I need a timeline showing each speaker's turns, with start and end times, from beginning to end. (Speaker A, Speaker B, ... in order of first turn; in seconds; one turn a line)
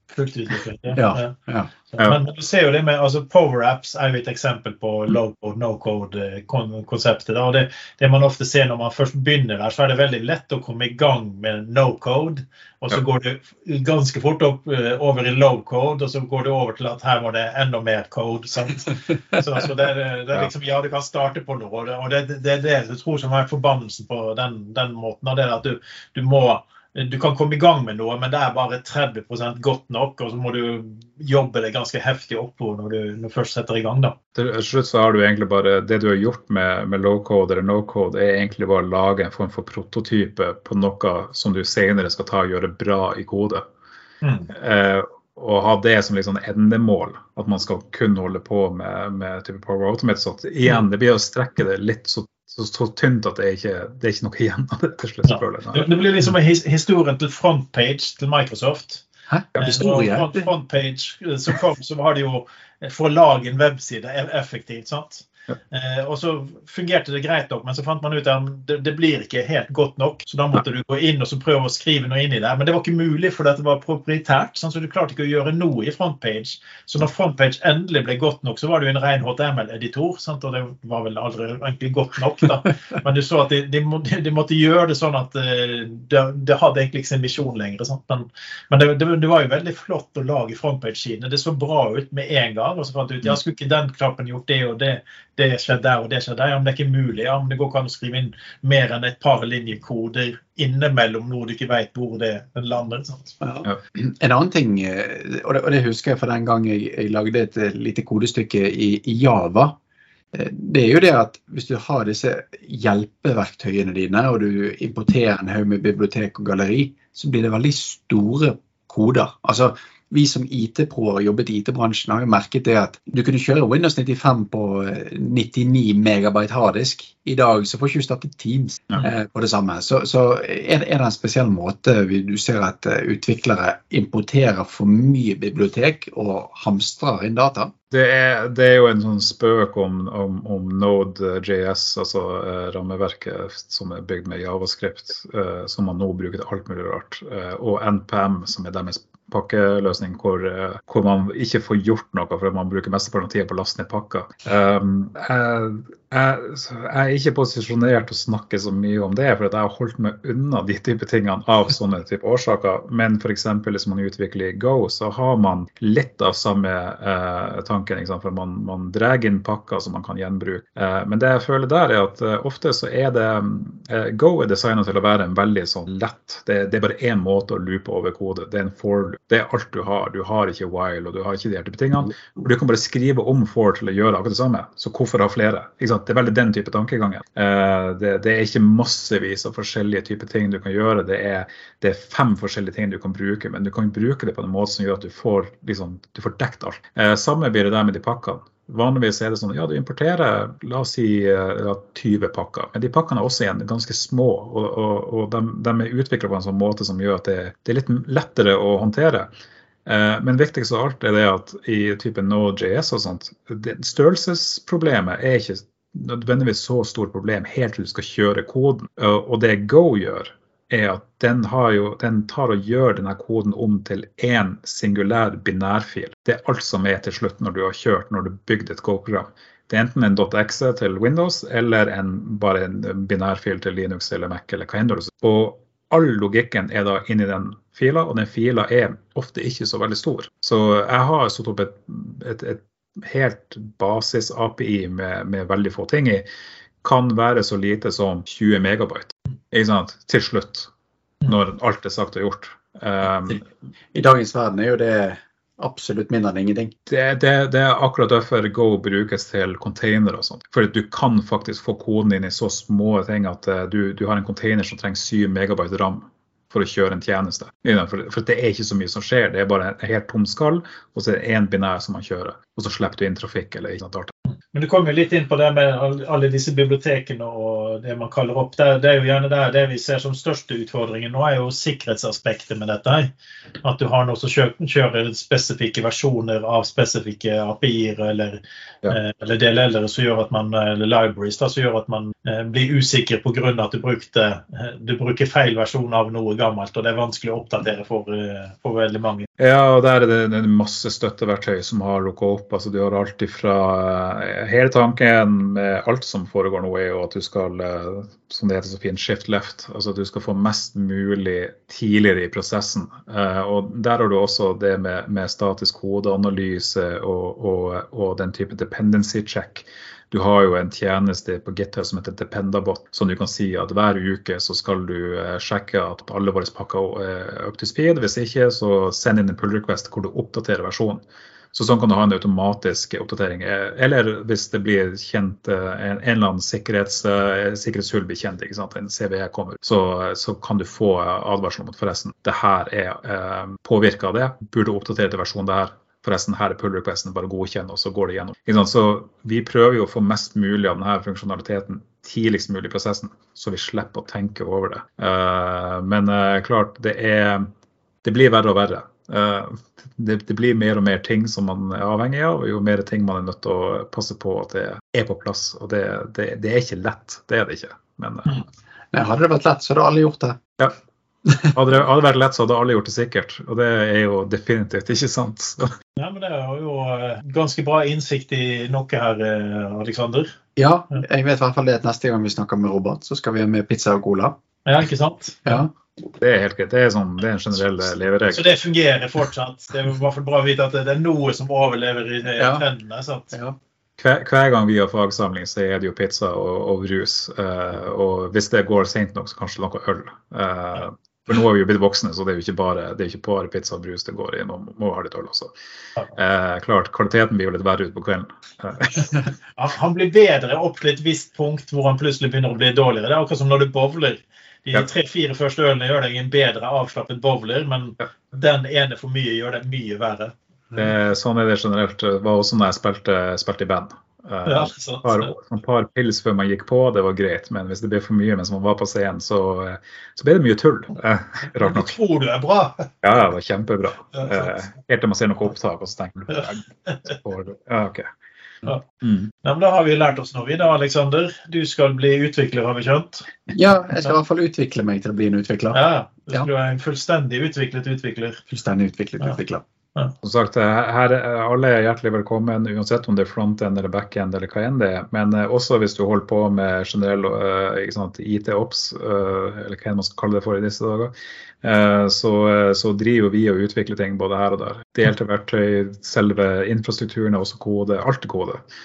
Speaker A: 0.1-1.3
Speaker B: 0.9-1.7
Speaker A: 1.9-34.2
Speaker C: 34.4-43.6
Speaker A: 44.2-44.5
Speaker C: 44.5-55.9
Speaker A: 55.3-59.0
Speaker B: 59.3-60.5
Speaker A: 59.6-103.4
Speaker B: 103.4-109.8
Speaker B: 110.3-137.7
Speaker C: 137.9-209.3
Speaker C: 209.9-246.3
Speaker C: 246.8-250.7
Speaker C: 251.2-253.4
Speaker B: 253.9-256.7
Speaker C: 256.9-274.1
Speaker A: 274.5-283.1
Speaker A: 283.6-299.3
Speaker C: 299.4-357.5
Speaker C: 358.0-368.4
Speaker B: 368.9-370.4
Speaker C: 371.4-375.7
Speaker A: 376.0-380.3
Speaker B: 380.6-384.4
Speaker A: 384.6-385.5
Speaker B: 385.5-385.7
Speaker C: 386.2-388.4
Speaker A: 388.3-393.3
Speaker B: 392.4-392.6
Speaker C: 394.0-405.5
Speaker C: 406.1-409.2
Speaker A: 409.6-420.4
Speaker C: 420.8-431.9
Speaker A: 424.5-425.4
Speaker A: 431.6-432.9
Speaker C: 433.0-438.1
Speaker A: 434.2-434.5
Speaker A: 436.3-436.9
Speaker C: 439.0-439.3
Speaker A: 439.4-443.3
Speaker B: 443.5-446.5
Speaker A: 445.7-448.4
Speaker B: 448.5-449.6
Speaker C: 450.2-468.6